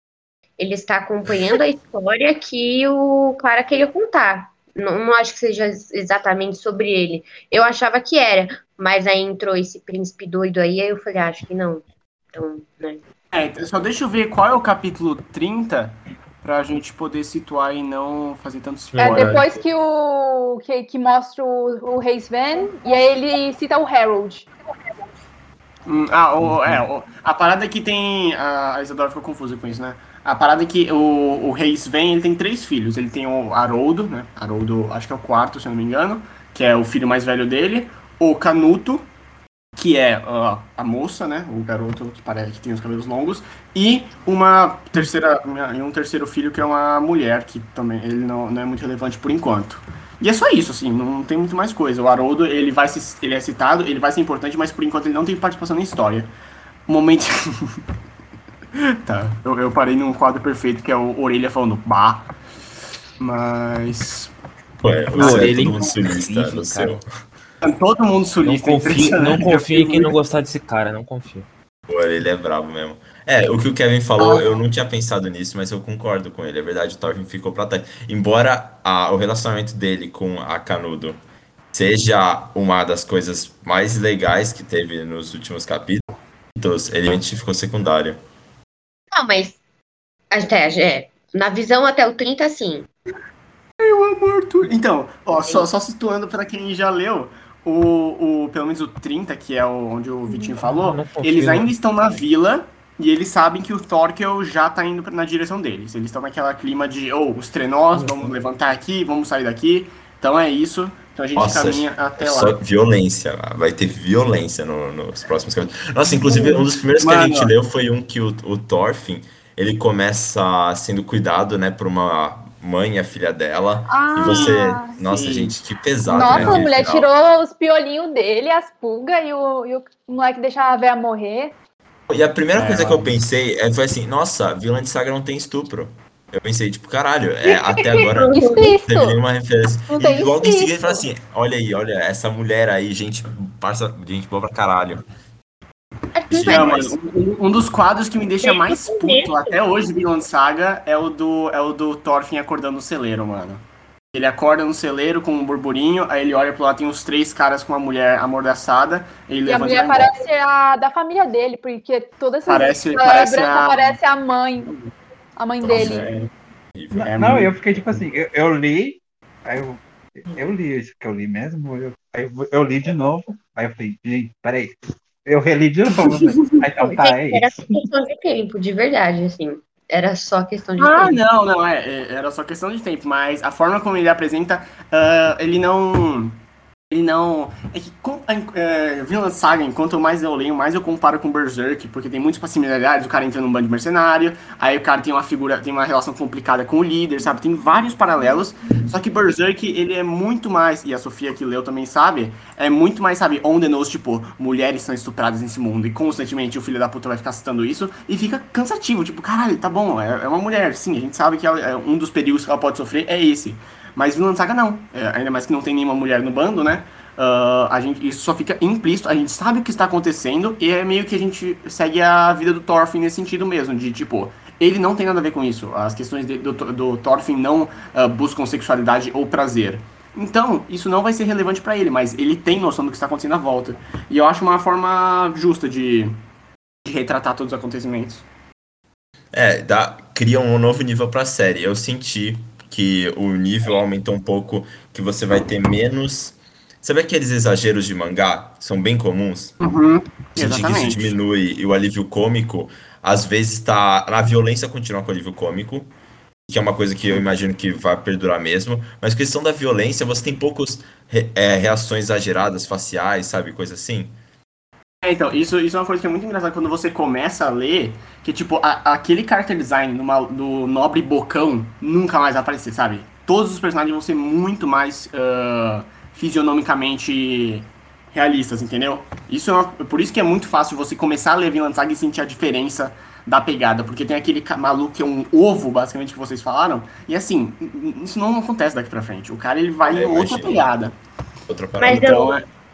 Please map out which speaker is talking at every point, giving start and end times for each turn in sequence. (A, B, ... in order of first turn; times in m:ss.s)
0:00.6-0:13.0 A
0:13.3-0:19.5 B
0:18.9-0:19.5 C
0:19.0-0:24.5 D
0:25.9-0:39.1 B
0:26.5-0:26.8 C
0:39.8-0:56.3 B
0:56.9-0:57.8 B
0:59.0-1:02.3 B
1:03.2-1:04.3 B
1:04.8-1:07.0 E
1:05.1-1:05.9 C
1:05.2-1:07.0 F
1:05.2-1:05.7 B
1:07.6-1:10.2 B
1:08.4-1:11.5 C
1:11.9-1:21.2 E
1:14.2-1:14.6 B
1:21.7-1:26.0 E
1:26.6-1:28.2 E
1:29.1-1:29.6 A
1:30.3-1:32.9 A
1:33.8-1:52.6 B
1:40.5-1:41.7 C
1:48.0-1:48.4 C
1:51.4-2:07.1 E
1:56.2-1:57.5 B
2:03.9-2:05.0 D
2:04.2-2:05.6 B
2:06.1-2:11.5 D
2:06.2-2:06.6 B
2:12.1-2:25.0 E
2:12.5-2:13.2 B
2:17.5-2:18.8 A
2:18.3-2:19.2 D
2:19.9-2:21.1 D
2:26.1-2:26.9 A
2:26.3-2:26.9 E
2:26.4-2:40.2 B
2:28.4-2:29.6 A
2:39.5-2:44.7 D
2:42.5-2:44.0 B
2:44.6-2:44.9 B
2:45.4-2:46.1 D
2:45.6-2:46.1 E
2:45.6-2:46.3 B
2:46.8-2:47.1 E
2:46.9-2:57.6 F
2:47.0-2:47.5 B
2:56.0-2:56.6 B
2:56.8-3:01.2 A
3:00.8-3:06.4 B
3:06.9-3:56.2 B
3:56.8-3:58.3 B
3:59.3-4:09.6 E
4:09.6-4:11.1 B
4:10.4-4:15.9 E
4:16.5-4:24.2 E
4:25.0-4:51.0 B
4:49.9-4:50.7 E
4:51.5-4:52.3 E
4:51.8-4:52.4 A
4:51.9-4:52.5 B